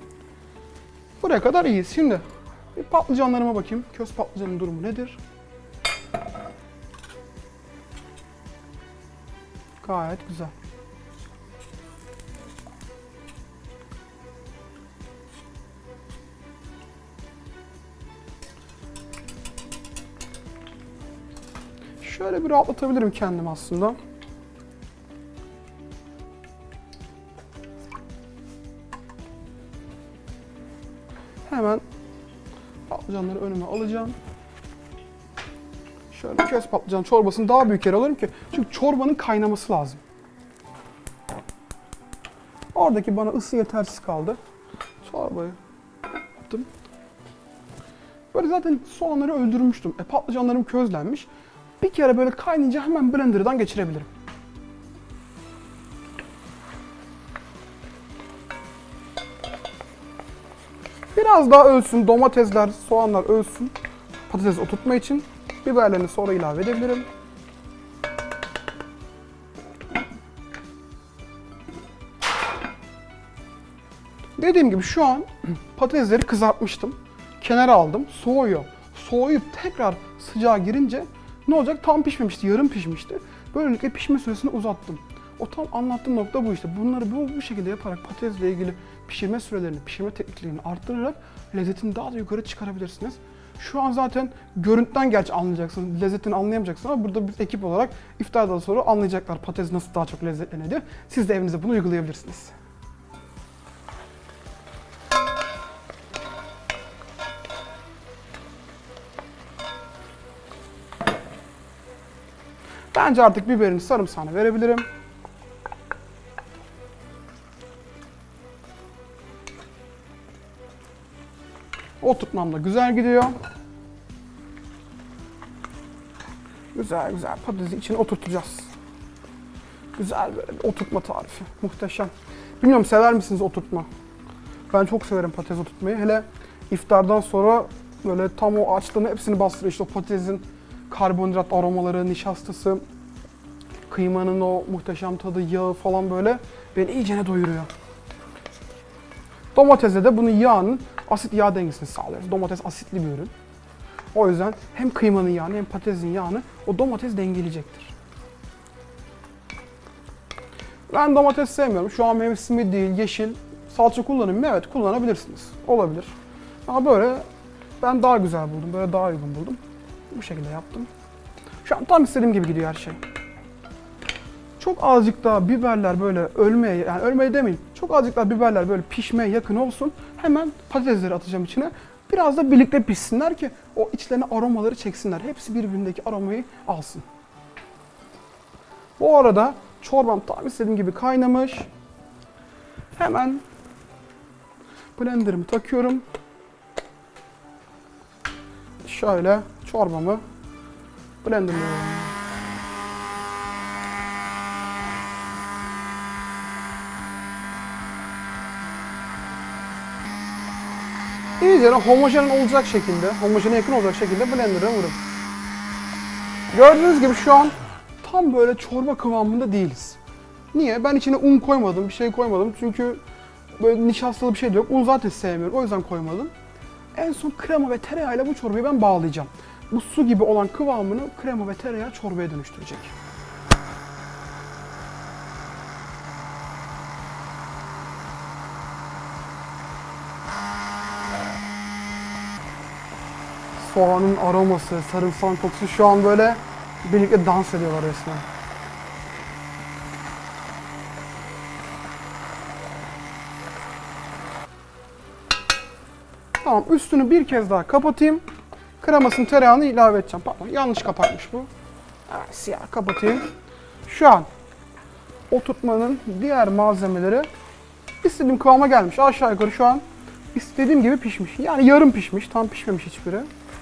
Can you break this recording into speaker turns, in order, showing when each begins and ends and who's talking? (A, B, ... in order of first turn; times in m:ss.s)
0:01.2-0:02.2 A
0:02.8-0:05.2 A
0:09.8-0:10.5 A
0:22.0-0:24.0 A
0:31.5-0:31.8 A
0:32.9-0:34.2 A
0:36.1-0:40.0 A
0:42.7-0:44.4 A
0:45.0-0:45.6 A
0:48.3-0:51.3 A
0:51.8-0:54.1 A
1:01.1-1:03.7 A
1:04.3-1:07.1 A
1:14.4-1:42.5 A
1:52.9-1:54.9 A
2:02.0-2:03.3 A
2:06.7-2:08.7 A
2:10.0-2:13.9 A
2:14.7-2:22.8 A
2:23.9-2:27.7 A
2:29.5-2:33.3 A
2:34.1-2:37.9 A
2:40.9-2:46.2 A
2:46.7-2:47.3 A
2:47.8-2:49.6 A
2:50.1-2:50.9 A
2:51.6-2:53.0 A
2:54.6-3:07.1 A
3:09.0-3:11.7 A
3:13.0-3:13.4 A
3:15.0-3:16.0 A
3:18.8-3:20.2 A
3:21.2-3:22.2 A
3:31.4-3:35.0 A
3:36.5-3:40.0 A
3:40.5-3:43.0 A
3:43.6-3:46.3 A
3:46.9-3:52.9 A
4:03.6-4:08.3 A
4:16.4-4:18.2 A
4:18.8-4:21.5 A
4:22.1-4:23.3 A
4:23.8-4:24.3 A
4:25.3-4:27.3 A
4:28.0-4:33.3 A